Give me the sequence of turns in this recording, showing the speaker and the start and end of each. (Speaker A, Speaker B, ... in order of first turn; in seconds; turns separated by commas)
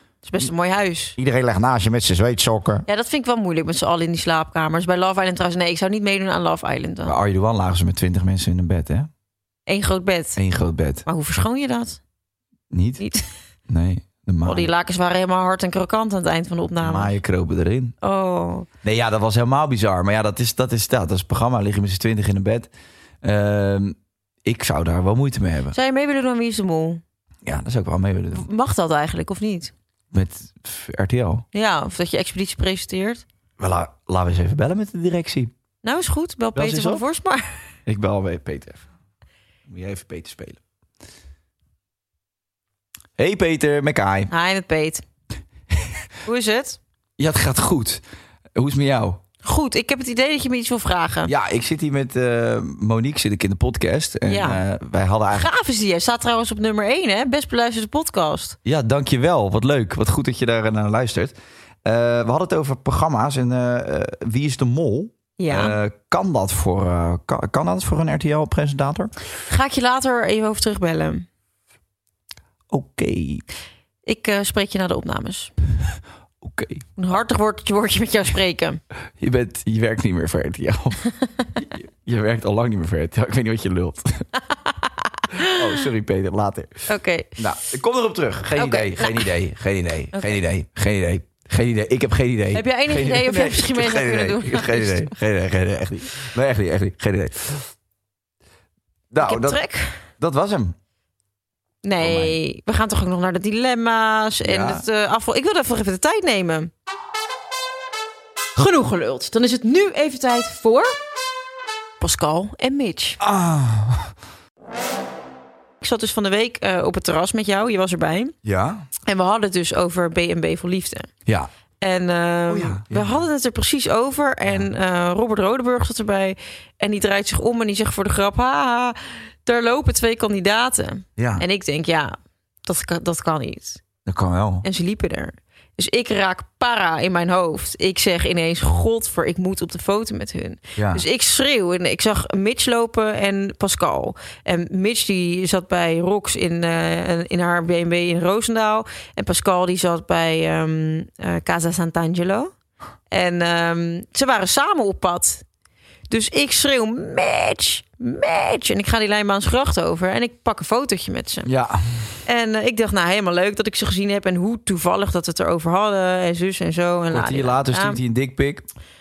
Speaker A: 0.2-1.2, Speaker B: 1.2-2.9, Speaker A: 2.9-7.2, Speaker B: 7.1-9.1, Speaker A: 9.7-10.4, Speaker B: 10.4-11.1, Speaker A: 11.1-12.0, Speaker B: 12.7-13.0, Speaker A: 13.0-13.3, Speaker B: 13.7-14.7, Speaker A: 14.4-17.2, Speaker B: 16.8-17.9, Speaker A: 18.0-18.7, Speaker B: 18.8-22.7, Speaker B: 23.2-25.8, Speaker A: 25.7-27.0, Speaker B: 27.4-28.5, Speaker A: 28.3-29.7, Speaker B: 30.1-31.4, Speaker A: 31.5-33.2, Speaker B: 33.6-35.5, Speaker A: 35.8-37.6, Speaker B: 36.5-37.0, Speaker B: 37.9-38.9, Speaker B: 39.7-40.6, Speaker B: 43.2-44.3, Speaker A: 44.3-45.0, Speaker A: 46.2-46.8, Speaker B: 47.2-48.0, Speaker B: 48.5-49.2, Speaker A: 49.4-51.3, Speaker B: 51.3-55.5, Speaker A: 54.3-54.6, Speaker A: 55.3-58.6, Speaker B: 58.6-69.1, Speaker A: 65.4-65.8, Speaker A: 69.5-71.3, Speaker B: 72.7-73.4, Speaker A: 74.1-75.5, Speaker B: 76.4-76.9, Speaker A: 77.0-78.8, Speaker B: 79.2-81.0, Speaker A: 81.0-81.5, Speaker B: 81.6-84.3, Speaker A: 84.8-85.8, Speaker B: 85.4-97.7, Speaker A: 86.9-87.4, Speaker A: 88.5-89.3, Speaker A: 92.5-95.1, Speaker B: 99.1-99.6, Speaker A: 99.2-100.0, Speaker B: 100.2-100.8, Speaker A: 101.8-106.7, Speaker B: 102.0-102.4, Speaker B: 104.5-104.8, Speaker A: 108.6-110.9, Speaker A: 112.0-113.2, Speaker B: 113.2-114.1, Speaker A: 115.8-118.3, Speaker B: 118.4-118.8, Speaker A: 119.1-121.1, Speaker A: 121.8-133.8, Speaker B: 122.5-123.2, Speaker B: 131.2-131.4, Speaker B: 134.1-134.7, Speaker A: 134.6-152.5, Speaker B: 140.8-141.0, Speaker A: 153.1-155.4, Speaker A: 156.1-161.5, Speaker B: 161.5-162.1, Speaker A: 162.2-168.0, Speaker B: 167.1-168.7